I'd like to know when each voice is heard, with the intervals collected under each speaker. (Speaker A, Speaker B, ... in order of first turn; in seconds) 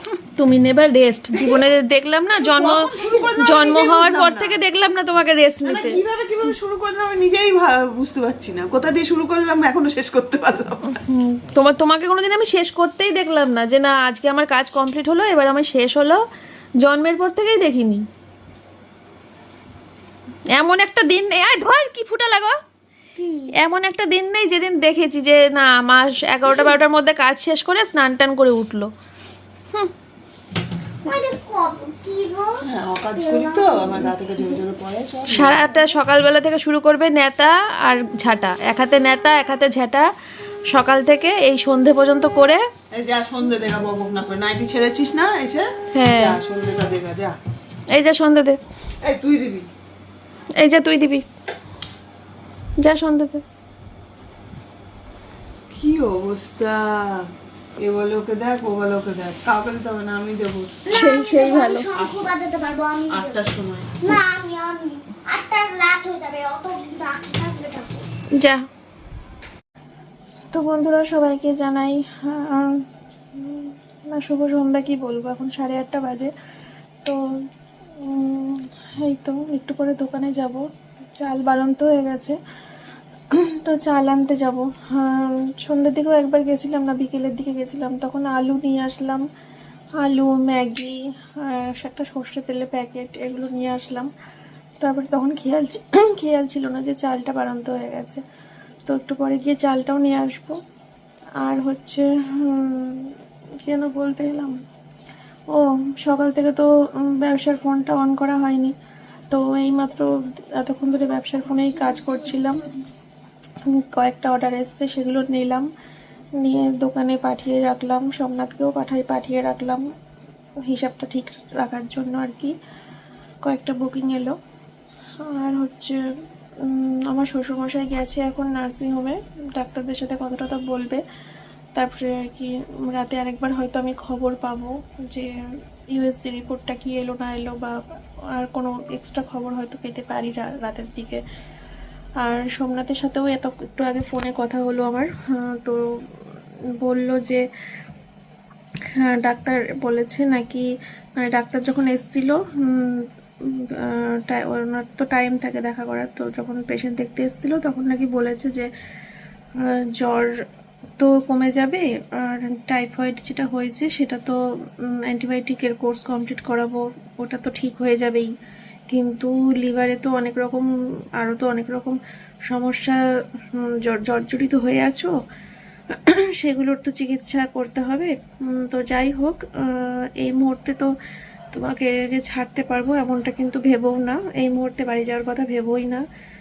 Speaker A: 0.3-6.0, 10.9-16.2, 16.8-18.0, 20.5-22.6, 23.5-28.9, 35.3-40.1, 40.7-42.6, 45.9-46.4, 47.9-48.6, 50.5-51.2, 52.8-53.4, 60.9-61.9, 68.3-68.6, 70.5-76.3, 78.0-82.4, 83.3-89.2, 90.0-94.1, 94.8-98.2, 98.9-100.6, 101.4-104.6, 105.5-108.7, 109.3-112.6, 113.7-115.7, 116.4-119.9, 120.6-122.5, 123.4-124.3, 125.2-126.0, 126.6-131.0, 131.7-135.3, 135.9-141.2, 142.2-145.9, 146.8-147.4, 148.9-158.7, 159.6-160.4, 161.0-168.3, 168.9-173.0, 173.5-175.1, 175.9-180.9, 181.5-186.0
Speaker B: 1.3-1.6, 2.4-4.6, 5.6-11.0, 32.6-35.6, 42.9-47.4, 49.0-49.7, 55.7-60.8, 63.1-64.0
Speaker C: 2.9-3.4, 23.1-23.5, 31.0-32.6, 33.1-34.6, 60.8-63.5, 64.0-68.0, 111.6-112.8